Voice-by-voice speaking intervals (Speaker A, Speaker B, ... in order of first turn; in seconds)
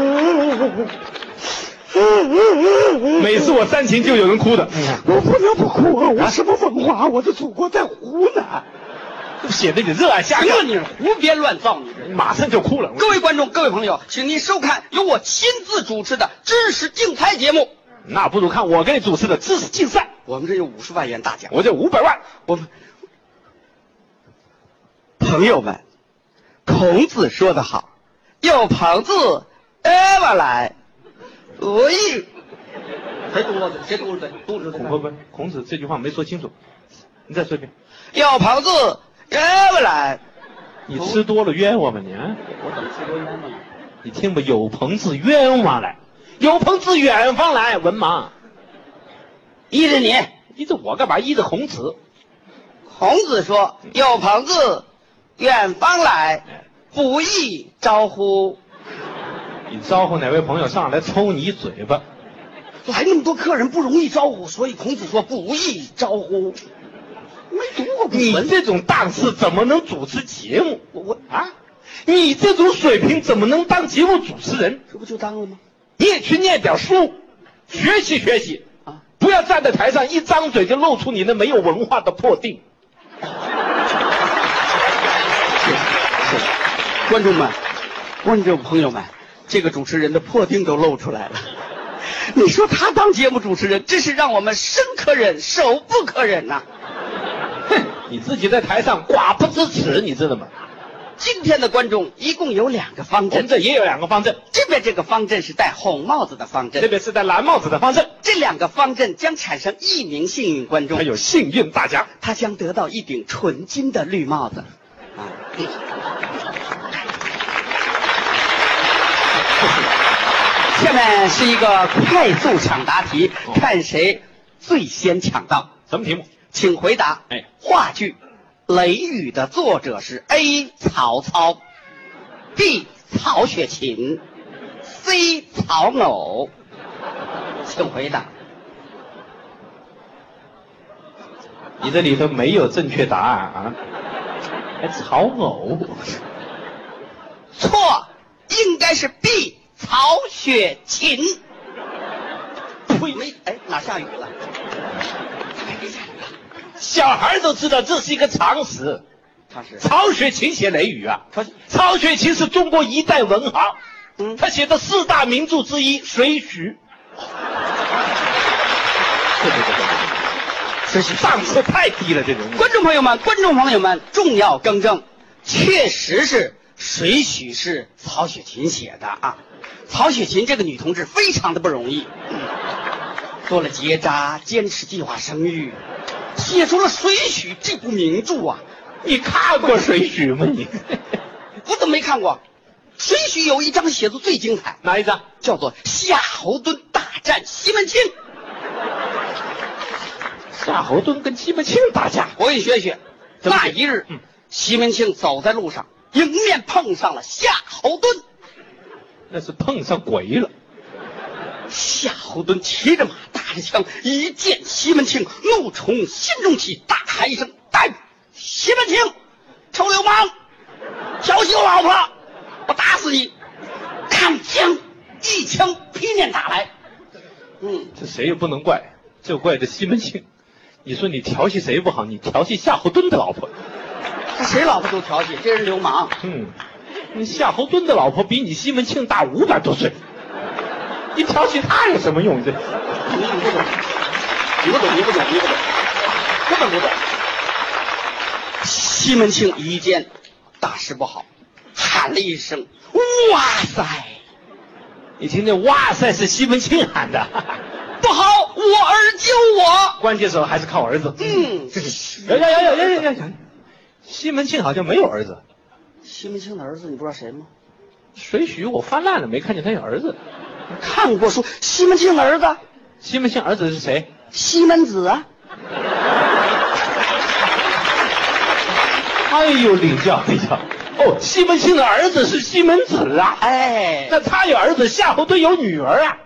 Speaker A: 2.1-3.2, 4.8-8.6, 10.3-12.2, 13.0-17.7, 20.2-21.6, 25.2-25.8, 26.6-27.9, 28.4-30.7, 31.6-32.3, 33.3-34.9, 38.1-40.2, 40.9-41.2, 42.5-43.6, 49.7-50.3, 52.9-54.8, 55.4-58.6, 62.9-66.6, 67.5-68.5, 70.9-71.2, 74.9-75.6, 85.6-86.5, 87.0-87.6, 88.2-91.5, 92.0-96.6, 101.2-103.5, 104.5-106.9, 108.2-111.1, 112.1-114.7, 115.2-115.7, 120.7-125.7, 126.5-128.2, 128.7-131.6, 132.6-134.2, 134.9-136.5, 137.6-138.3, 147.6-151.4, 153.1-154.3, 155.6-156.3, 159.5-159.8, 170.8-171.6, 172.6-182.1, 183.4-185.8, 186.3-188.6, 191.6-192.4, 193.0-194.8, 195.4-198.1, 202.4-208.2, 211.7-219.1, 219.7-220.3, 221.2-222.1, 222.7-223.3, 224.1-226.7, 227.6-227.9, 234.3-236.1, 243.0-243.8, 244.6-245.7, 246.5-247.0, 248.6-250.1, 250.6-254.2, 258.0-260.0, 261.2-263.0, 266.0-267.5, 270.8-272.6, 274.3-275.2, 283.4-284.1
Speaker B: 3.1-5.0, 9.4-10.7, 12.0-13.2, 18.1-20.1, 21.5-22.2, 34.7-36.5, 37.3-37.7, 40.9-42.4, 44.0-48.3, 50.5-52.0, 59.7-62.0, 68.1-71.5, 72.0-74.8, 76.0-77.2, 77.7-78.6, 79.2-82.6, 97.7-100.5, 103.3-104.4, 106.8-108.1, 110.9-112.1, 125.9-126.3, 141.8-143.8, 144.8-146.2, 152.9-153.2, 156.8-159.0, 159.8-163.8, 164.4-166.8, 169.4-170.1, 171.1-172.7, 189.0-191.2, 194.8-195.2, 200.5-202.3, 203.4-203.8, 209.3-210.5, 227.9-230.2, 230.8-233.5, 236.2-236.5, 237.1-240.0, 241.1-242.7, 255.2-257.6, 260.0-263.4, 264.0-265.4, 268.1-270.2, 273.0-274.1, 279.2-283.4, 284.1-286.2